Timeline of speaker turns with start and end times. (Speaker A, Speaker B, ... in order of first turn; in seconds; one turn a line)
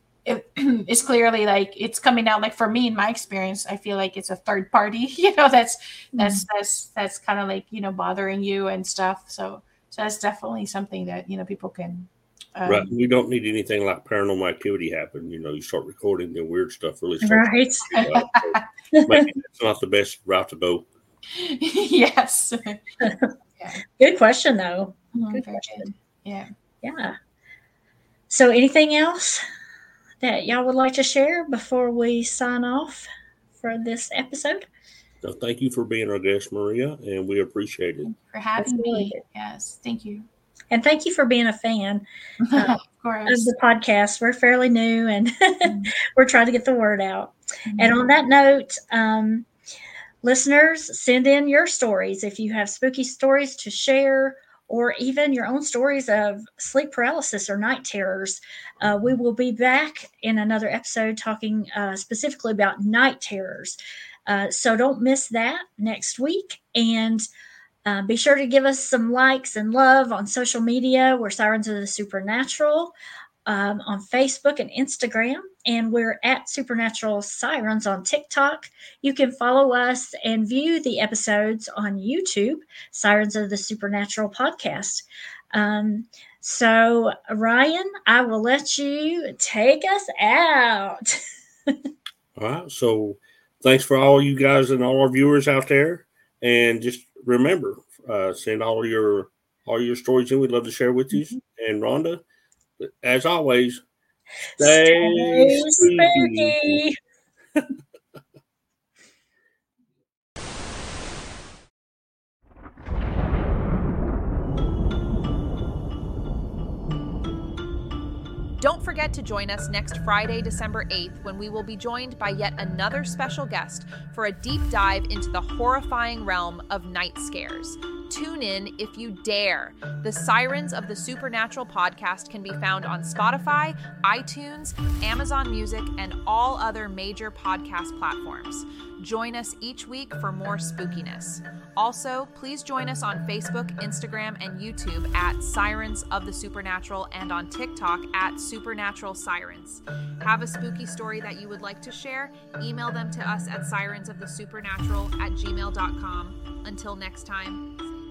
Speaker A: 0.2-12.9
Speaker B: 6.1-6.4
Speaker C: 12.6-20.9
Speaker B: 17.2-17.9
Speaker A: 17.9-18.6
Speaker B: 18.9-19.2
Speaker A: 21.3-22.8
Speaker B: 23.0-23.3
Speaker B: 23.9-25.9
Speaker A: 25.1-26.5
Speaker B: 26.8-27.1
Speaker B: 28.3-29.4
Speaker B: 30.2-33.1
Speaker B: 33.6-34.6
Speaker C: 35.2-38.1
Speaker A: 38.0-40.3
Speaker B: 38.6-39.2
Speaker B: 40.7-49.5
Speaker A: 42.4-43.5
Speaker A: 45.6-45.9
Speaker A: 47.7-48.0
Speaker B: 50.2-67.2
Speaker B: 67.8-72.9
Speaker B: 73.5-91.8
Speaker C: 92.3-102.2
Speaker C: 102.8-103.8
Speaker C: 104.6-106.8
Speaker B: 104.6-107.0
Speaker D: 118.6-157.6